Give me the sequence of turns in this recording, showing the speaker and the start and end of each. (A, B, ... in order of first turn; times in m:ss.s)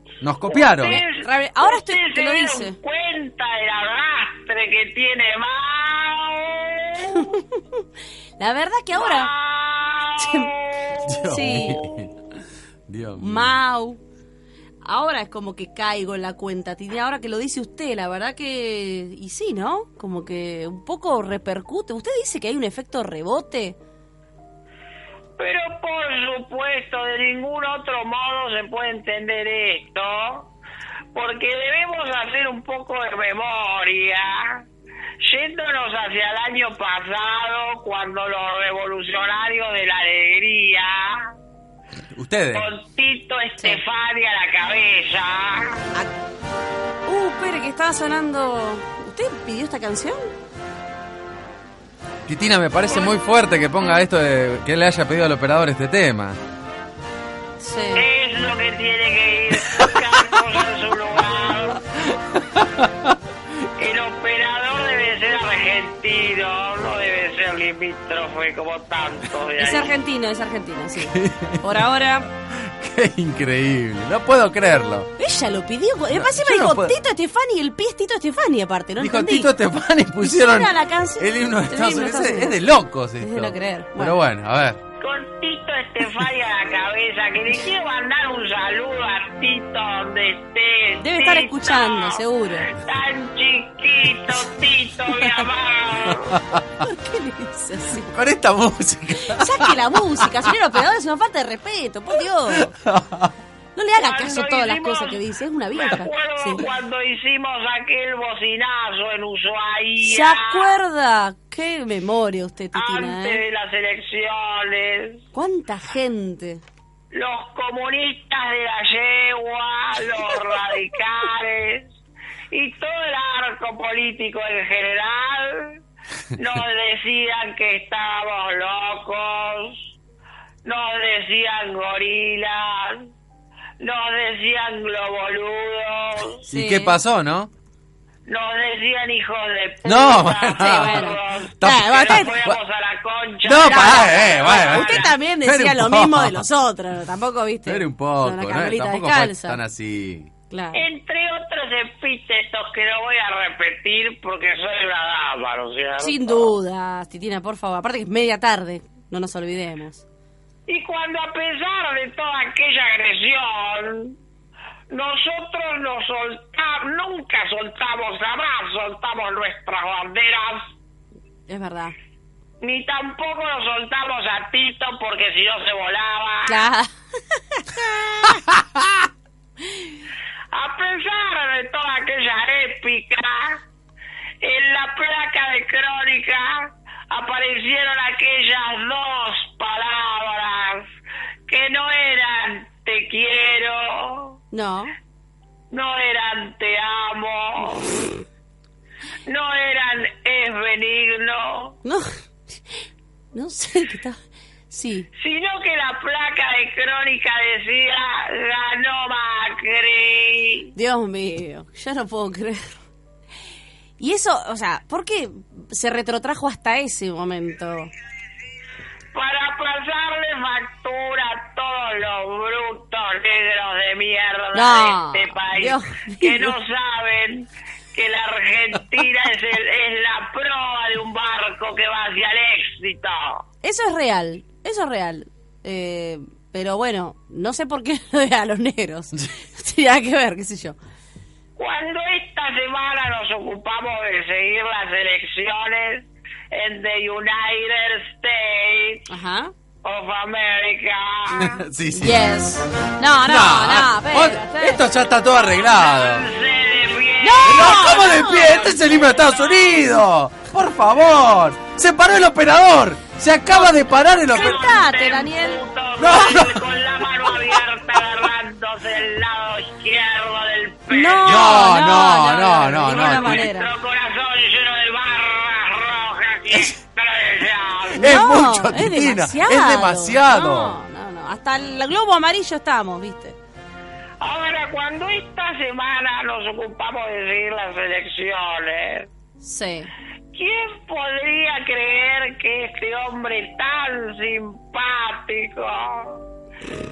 0:00.2-0:01.0 A
0:00.4-0:07.2 B
0:00.8-0:02.8 C
0:07.0-0:07.8 C
0:08.4-0:09.3 C
0:08.9-0:11.9 B
0:10.2-0:10.5 C
0:11.0-0:13.6 A
0:11.2-0:11.8 C
0:13.2-0:14.0 C
0:14.8-0:23.8 C
0:25.4-0:30.5 B
0:31.1-0:34.6 B
0:35.2-0:41.3 B
0:42.1-0:42.7 A
0:42.5-0:45.8 B
0:47.0-0:50.3 C
0:52.3-0:56.4 A
0:57.6-0:58.0 C
0:57.9-1:01.8 B
1:02.1-1:03.2 A
1:03.8-1:09.9 B
1:09.6-1:12.3 C
1:11.0-1:15.1 A
1:15.2-1:19.5 C
1:16.1-1:17.0 A
1:19.0-1:24.8 A
1:20.2-1:22.6 C
1:23.2-1:24.2 C
1:25.0-1:36.4 B
1:31.0-1:32.7 C
1:36.1-1:36.6 A
1:36.8-1:38.1 C
1:38.1-1:40.3 A
1:39.2-1:42.7 C
1:42.5-1:43.3 A
1:43.8-1:46.6 C
1:44.0-1:45.2 B
1:45.7-1:50.7 B
1:50.0-1:53.4 C
1:52.7-1:55.2 B
1:55.3-1:56.6 C
1:57.1-2:01.9 B
2:02.5-2:05.8 B
2:06.4-2:09.9 B
2:10.6-2:13.1 B
2:13.8-2:16.4 B
2:16.5-2:17.5 A
2:16.5-2:17.0 C
2:18.3-2:25.1 B
2:19.8-2:22.6 A
2:20.5-2:22.3 C
2:23.4-2:26.4 A
2:23.6-2:29.6 C
2:27.6-2:30.3 A
2:30.5-2:30.8 C
2:30.7-2:36.5 B
2:36.0-2:40.0 C
2:40.7-2:44.2 B
2:44.9-2:50.7 B
2:51.5-2:51.9 C
2:52.6-2:56.6 B
2:56.4-2:58.4 C
3:00.5-3:03.6 B
3:04.4-3:10.9 B
3:11.5-3:14.4 B
3:14.5-3:14.9 C
3:15.7-3:18.0 B
3:19.2-3:21.8 B
3:21.8-3:22.8 C
3:23.3-3:24.2 C
3:24.7-3:25.1 C
3:25.2-3:30.7 B
3:30.7-3:32.8 C
3:34.0-3:37.9 C
3:39.1-3:53.4 B
3:44.5-3:46.6 C
3:53.6-4:00.8 C
4:01.6-4:09.0 B
4:09.1-4:09.5 C
4:09.8-4:11.6 B
4:11.3-4:12.2 A
4:11.9-4:14.8 C
4:13.2-4:16.3 A
4:15.3-4:19.8 B
4:17.2-4:18.7 C
4:17.4-4:24.7 A
4:23.5-4:25.6 C
4:24.2-4:31.7 B
4:26.0-4:26.7 A
4:30.9-4:33.7 C
4:31.2-4:33.5 A
4:32.8-4:38.1 B
4:37.9-4:40.8 A
4:38.0-4:43.4 C
4:44.2-4:49.1 B
4:49.4-4:49.9 C
4:50.3-4:56.2 B